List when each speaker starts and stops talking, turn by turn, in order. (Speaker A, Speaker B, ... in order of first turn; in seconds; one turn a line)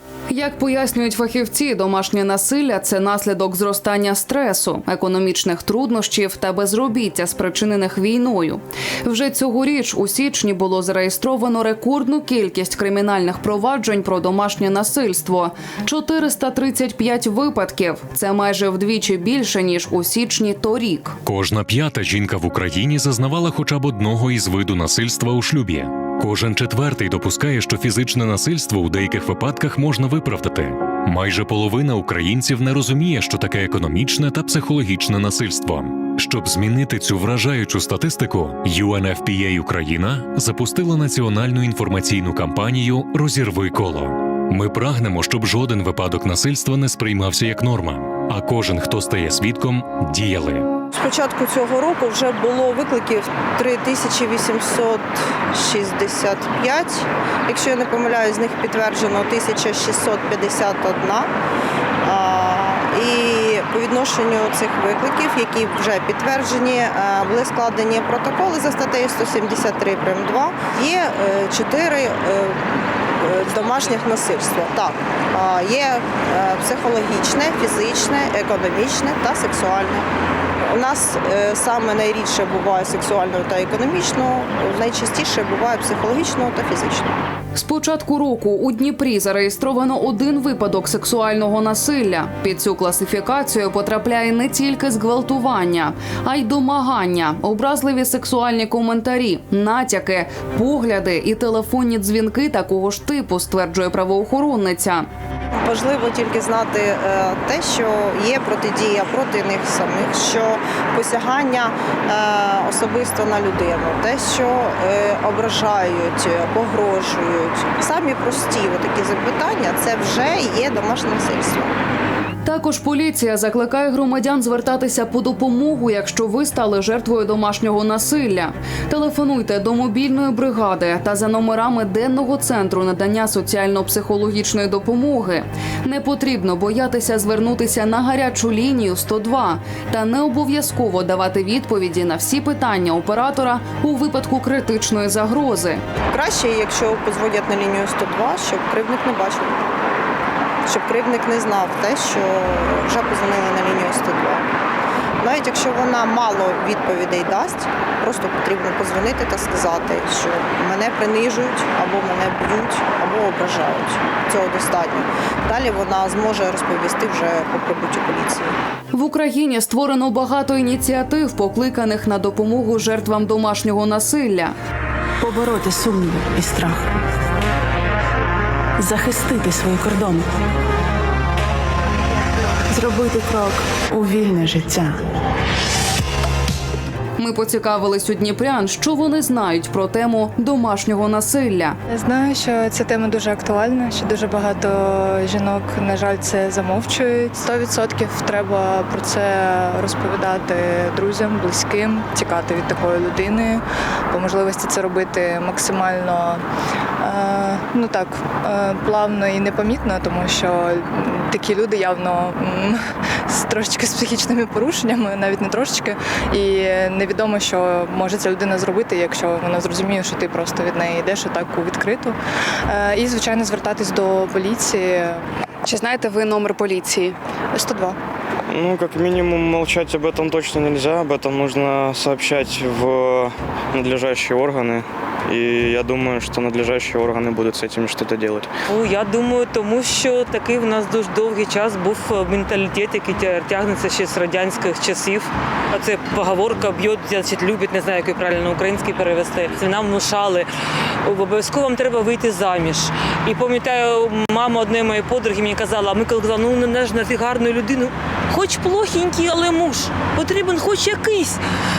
Speaker A: 0.3-21.2
Speaker B: 21.2-50.7
Speaker C: 50.9-61.3
Speaker C: 62.0-72.6
Speaker C: 73.2-80.0
Speaker C: 80.7-87.2
Speaker A: 87.5-105.0
Speaker C: 105.5-121.7
Speaker A: 122.4-145.8
Speaker C: 146.1-149.6
Speaker C: 150.7-154.4
Speaker C: 155.2-168.6
Speaker A: 168.9-174.5
Speaker D: 175.2-176.9
Speaker D: 178.8-180.3
Speaker D: 182.7-185.0
Speaker A: 187.2-191.7
Speaker E: 191.9-206.4
Speaker E: 207.0-222.2
Speaker E: 222.7-225.2
Speaker E: 227.5-227.9
Speaker F: 228.5-238.5
Speaker G: 238.7-250.5
Speaker G: 251.0-261.4